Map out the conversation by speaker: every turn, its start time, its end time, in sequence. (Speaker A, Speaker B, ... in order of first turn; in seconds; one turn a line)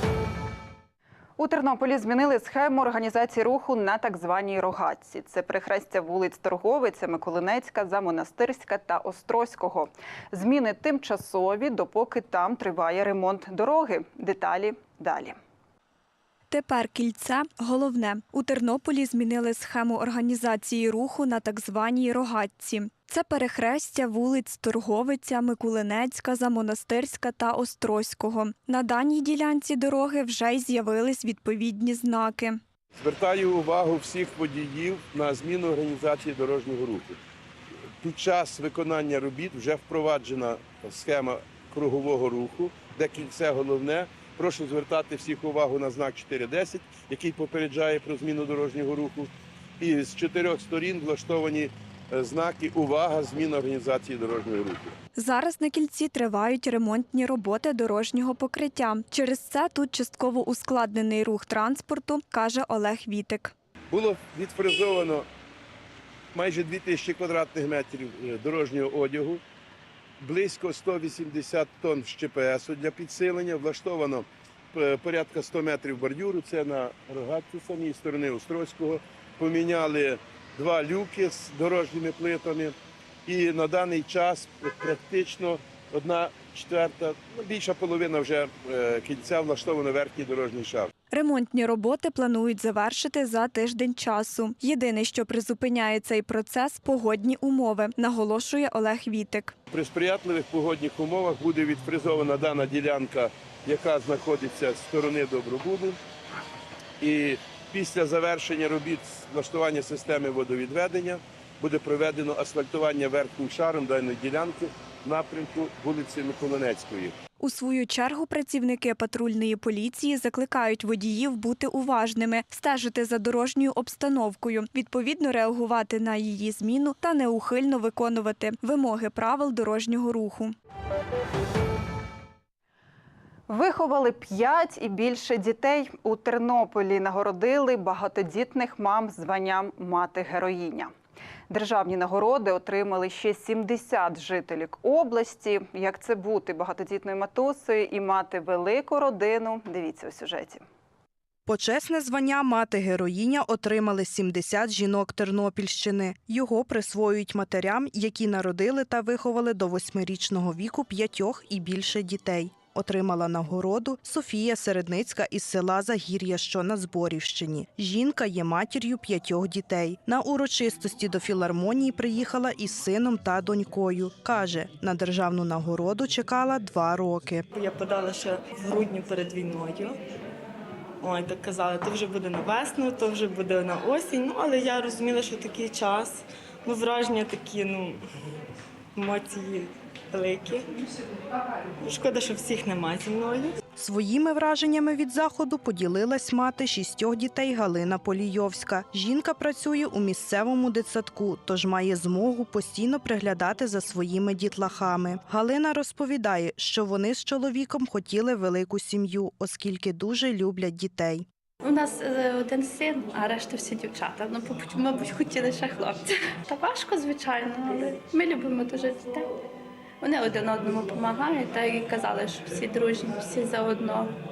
Speaker A: 1.4-15.4
Speaker B: 16.5-32.6
Speaker C: 32.9-37.2
Speaker C: 38.0-54.9
Speaker B: 55.1-63.5
Speaker C: 63.9-65.2
Speaker C: 66.3-69.4
Speaker C: 70.2-82.7
Speaker C: 83.2-90.9
Speaker B: 91.1-99.5
Speaker C: 99.7-106.0
Speaker C: 107.0-117.1
Speaker B: 117.4-130.6
Speaker A: 133.5-140.9
Speaker A: 141.5-150.6
Speaker D: 151.4-177.4
Speaker E: 177.5-180.0
Speaker E: 181.0-188.0
Speaker E: 188.9-190.6
Speaker E: 191.8-193.6
Speaker D: 193.8-211.2
Speaker F: 211.6-219.3
Speaker F: 220.0-224.1